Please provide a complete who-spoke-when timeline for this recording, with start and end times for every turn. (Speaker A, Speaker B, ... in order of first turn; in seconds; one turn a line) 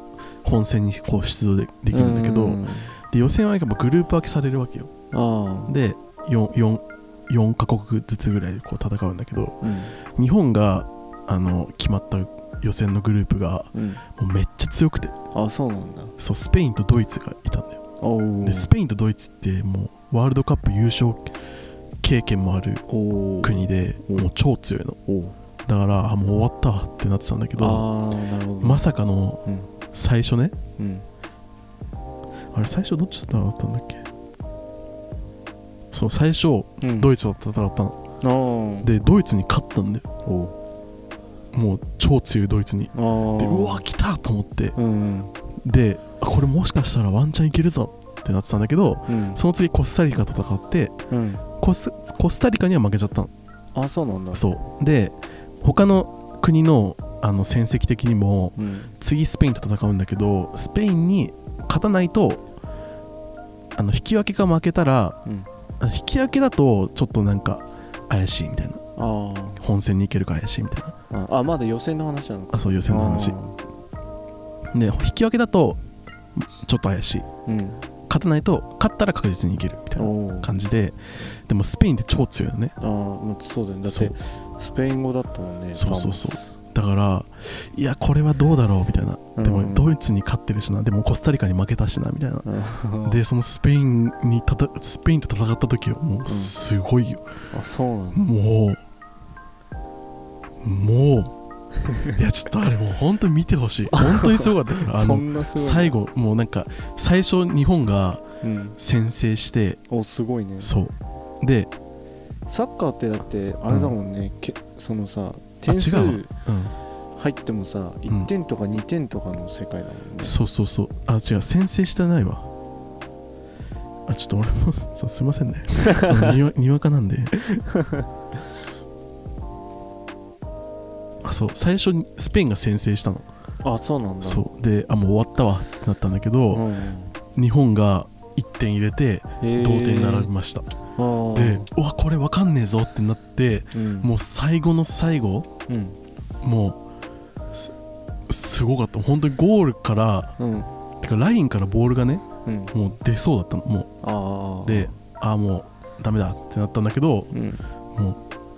Speaker A: 0.4-4.9
Speaker B: 1.9-3.0
Speaker B: 5.1-5.7
Speaker A: 5.7-9.6
Speaker B: 9.6-9.9
Speaker A: 10.1-15.1
Speaker B: 13.7-14.0
Speaker B: 15.3-16.1
Speaker A: 16.2-17.8
Speaker B: 18.0-18.7
Speaker A: 18.4-21.3
Speaker A: 22.0-22.8
Speaker B: 22.9-24.3
Speaker A: 23.4-25.0
Speaker B: 25.1-25.4
Speaker A: 25.6-27.9
Speaker B: 27.6-28.9
Speaker A: 28.6-30.6
Speaker B: 30.8-31.1
Speaker A: 32.5-34.1
Speaker A: 35.9-38.0
Speaker B: 36.8-37.1
Speaker B: 38.2-38.9
Speaker A: 38.8-40.0
Speaker B: 40.3-40.5
Speaker A: 41.5-44.8
Speaker B: 42.9-43.9
Speaker B: 44.8-45.3
Speaker A: 45.6-51.0
Speaker B: 49.1-49.4
Speaker B: 51.1-51.4
Speaker A: 51.6-53.3
Speaker B: 53.8-54.4
Speaker A: 54.3-62.4
Speaker B: 58.6-59.0
Speaker A: 63.8-65.2
Speaker A: 65.8-68.8
Speaker B: 69.0-69.6
Speaker A: 69.6-71.0
Speaker B: 71.1-73.6
Speaker A: 72.5-73.4
Speaker A: 74.7-75.8
Speaker A: 76.4-77.3
Speaker B: 77.5-77.8
Speaker A: 78.1-82.8
Speaker B: 80.0-80.5
Speaker B: 82.8-86.5
Speaker A: 83.9-84.1
Speaker A: 85.8-92.5
Speaker B: 89.4-89.9
Speaker B: 92.5-93.2
Speaker A: 93.0-97.2
Speaker B: 96.3-96.5
Speaker B: 97.5-98.3
Speaker A: 98.1-98.8
Speaker A: 100.6-101.3
Speaker A: 102.1-108.2
Speaker B: 103.9-106.0
Speaker B: 108.4-108.8
Speaker A: 108.8-109.8
Speaker B: 109.9-110.7
Speaker A: 110.6-111.7
Speaker B: 112.5-116.3
Speaker A: 113.7-113.9
Speaker A: 115.7-116.8
Speaker B: 117.2-120.4
Speaker A: 120.2-122.5
Speaker A: 124.1-127.4
Speaker B: 125.8-126.3
Speaker B: 127.6-128.1
Speaker A: 131.2-133.3
Speaker B: 133.6-134.4
Speaker A: 134.2-136.7
Speaker B: 136.5-137.2
Speaker A: 137.3-140.7
Speaker B: 139.4-140.3
Speaker B: 141.0-141.7
Speaker A: 141.3-145.5
Speaker B: 143.7-144.1
Speaker B: 145.7-146.0
Speaker A: 146.4-146.8
Speaker A: 148.3-150.3
Speaker B: 150.4-150.7
Speaker A: 151.0-153.9
Speaker B: 152.4-152.7
Speaker B: 154.0-154.9
Speaker A: 154.6-157.3
Speaker B: 157.3-157.6
Speaker A: 157.9-158.2